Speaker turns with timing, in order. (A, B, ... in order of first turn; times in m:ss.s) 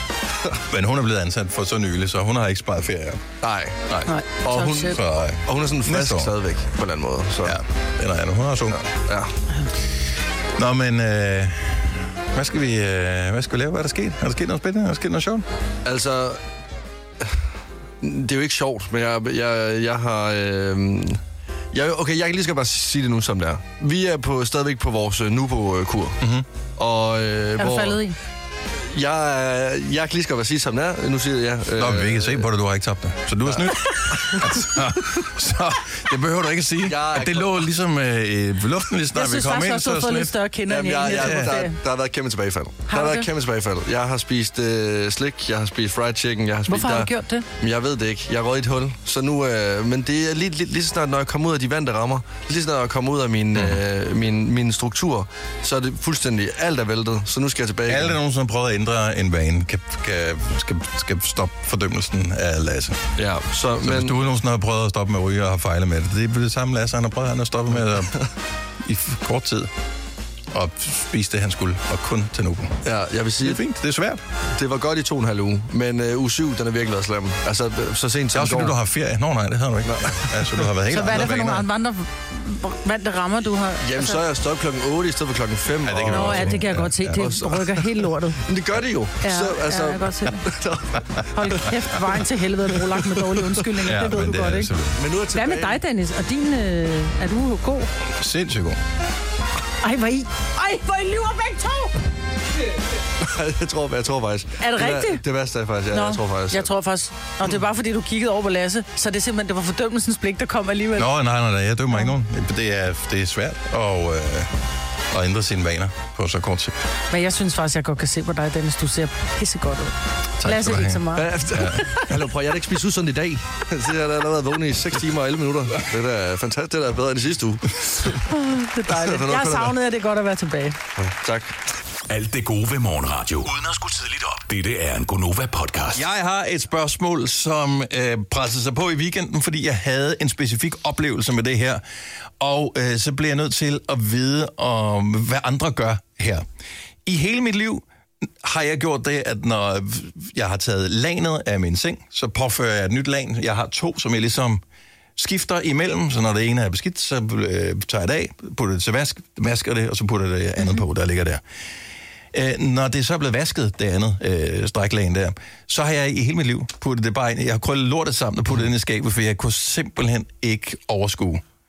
0:00.7-0:03.3 A
0:03.4-0:03.8 B
0:03.9-0:06.3 A
0:04.1-0:05.0 C
0:04.4-0:07.6 B
0:07.4-0:08.8 A
0:08.8-0:09.3 B
0:10.6-0:15.4 A
0:15.8-0:16.4 B
0:18.0-0:21.2 B
0:21.7-0:26.2 B
0:26.2-0:26.5 A
0:26.8-0:28.0 B
0:27.6-0:28.2 C
0:28.8-0:32.5 B
0:31.8-0:40.4 A
0:33.6-0:34.6 B
0:36.8-0:37.5 B
0:39.2-0:41.8 C
0:40.7-0:58.2 B
0:41.1-0:41.6 A
0:42.9-0:43.3 C
0:46.7-0:47.4 C
0:53.6-0:53.8 A
0:57.9-1:03.0 A
1:03.2-1:04.2 B
1:03.8-1:08.2 A
1:08.8-1:09.7 A
1:10.5-1:12.8 A
1:12.8-1:13.6 B
1:13.4-1:14.2 A
1:14.6-1:18.8 B
1:18.3-1:21.7 A
1:19.9-1:20.6 B
1:20.9-1:24.2 C
1:23.8-1:27.8 B
1:25.8-1:27.2 A
1:26.1-1:28.4 C
1:28.4-1:31.6 B
1:29.2-1:30.4 C
1:31.3-1:34.8 C
1:32.8-1:33.6 B
1:33.8-1:35.0 A
1:35.0-1:35.8 B
1:35.3-1:37.9 C
1:38.2-1:38.8 A
1:39.8-1:42.0 C
1:43.2-1:46.7 B
1:44.6-1:45.2 C
1:45.9-1:51.1 C
1:51.0-1:54.5 A
1:55.1-1:56.8 A
1:57.1-2:02.1 C
2:00.4-2:01.8 A
2:01.2-2:08.2 B
2:08.3-2:10.8 C
2:08.9-2:09.8 B
2:11.0-2:11.6 B
2:12.1-2:16.0 D
2:15.9-2:21.8 A
2:22.4-2:26.5 A
2:27.0-2:27.8 A
2:28.4-2:34.6 A
2:35.2-2:41.4 A
2:42.3-2:51.4 A